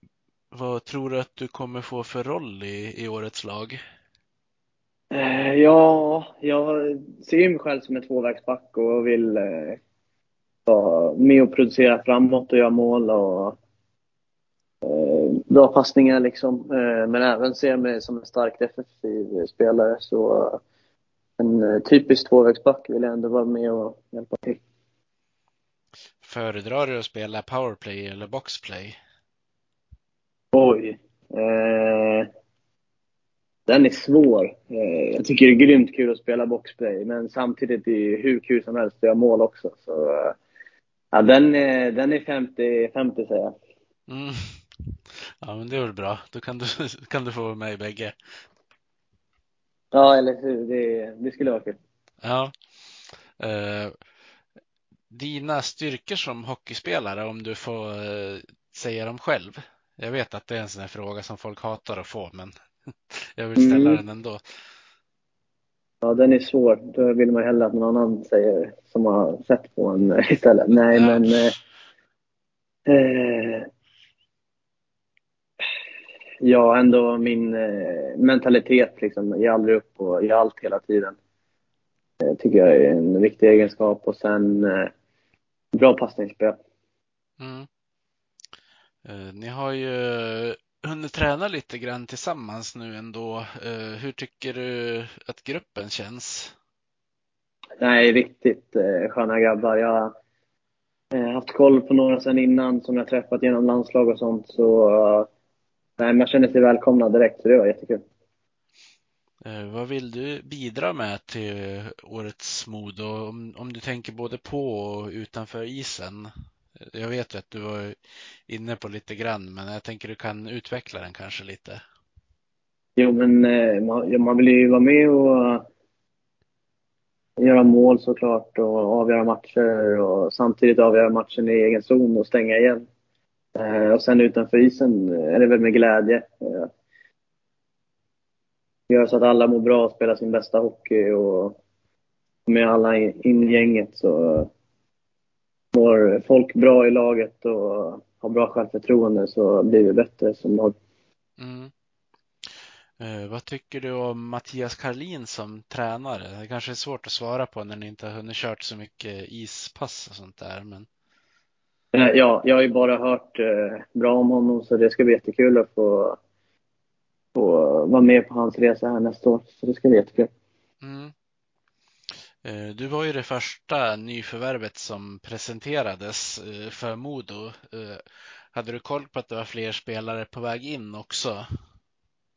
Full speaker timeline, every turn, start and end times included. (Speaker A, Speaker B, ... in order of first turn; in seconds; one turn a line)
Speaker A: 0.5-3.8
Speaker B: 5.1-9.8
Speaker B: 10.7-13.6
Speaker B: 14.8-20.6
Speaker B: 21.4-24.6
Speaker A: 26.2-29.0
Speaker B: 30.5-32.3
Speaker B: 33.7-40.3
Speaker B: 41.1-43.5
Speaker A: 44.1-48.1
Speaker B: 49.9-51.8
Speaker A: 52.2-52.5
Speaker A: 53.4-54.0
Speaker A: 55.1-62.5
Speaker A: 63.1-64.4
Speaker B: 63.5-64.0
Speaker B: 66.0-71.5
Speaker A: 70.9-71.5
Speaker B: 72.9-73.7
Speaker B: 76.4-81.2
Speaker B: 82.2-84.9
Speaker B: 85.7-86.6
Speaker A: 87.4-87.7
Speaker A: 89.0-96.5
Speaker B: 97.8-100.1
Speaker B: 101.1-105.3
Speaker B: 106.0-108.0
Speaker A: 109.4-118.0
Speaker A: 118.5-121.8
Speaker B: 123.0-125.7
Speaker B: 127.4-132.9
Speaker B: 133.6-136.7
Speaker B: 138.9-141.6
Speaker B: 142.5-144.5
Speaker B: 145.7-150.7
Speaker A: 151.4-151.7
Speaker A: 152.4-160.9
Speaker B: 161.9-166.2
Speaker B: 167.3-170.3
Speaker A: 170.8-171.1
Speaker A: 172.4-181.4